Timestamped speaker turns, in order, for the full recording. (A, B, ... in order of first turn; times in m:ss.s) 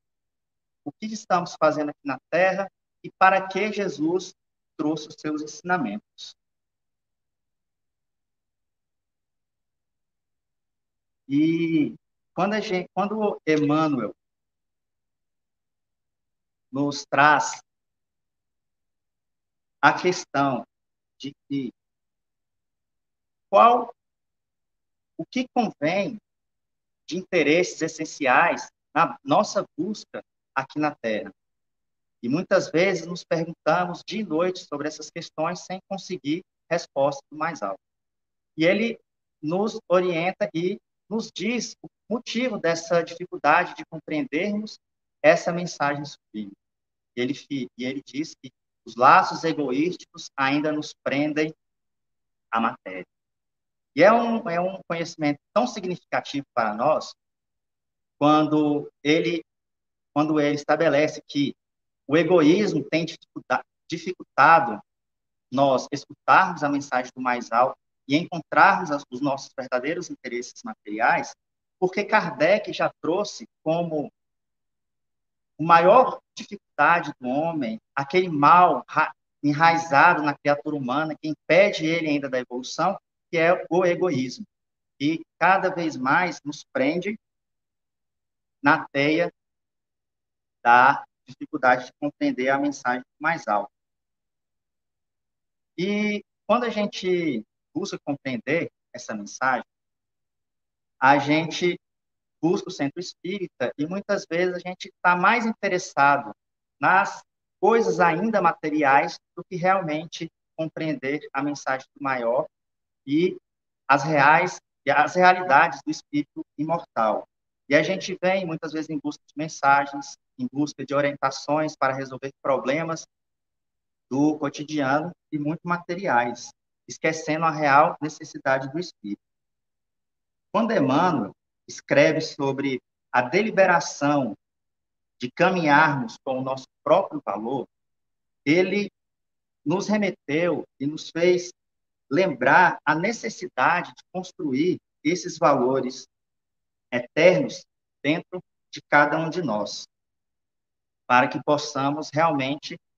0:00.8-0:06.4 A
0:11.3-0:14.2 A
0:16.7-0:17.6 A
0:19.8-0:20.7 A
0:21.2-0:21.7 A
0:23.5-0:24.0 A
0:25.2-0:26.2 A
0:27.1-0:31.3 A
0:32.2-0:37.8 A
0:38.6-0:46.6 A
0:47.2-0:51.5 A
0:52.5-0:53.1 A
0:54.0-0:57.2 A
0:58.2-0:59.4 A
1:00.2-1:01.6 A
1:02.1-1:04.8 A
1:05.5-1:14.1 A
1:15.6-1:24.5 A
1:25.0-1:27.2 A
1:28.6-1:29.3 A
1:30.6-1:33.7 A
1:35.8-1:39.7 A
1:41.0-1:41.8 A
1:42.4-1:52.5 A
1:53.1-2:03.1 A
2:04.1-2:09.2 A
2:10.5-2:14.4 A
2:15.2-2:17.7 A
2:18.5-2:18.9 A
2:19.7-2:21.6 A
2:22.1-2:26.1 A
2:26.9-2:29.9 A
2:31.1-2:32.8 A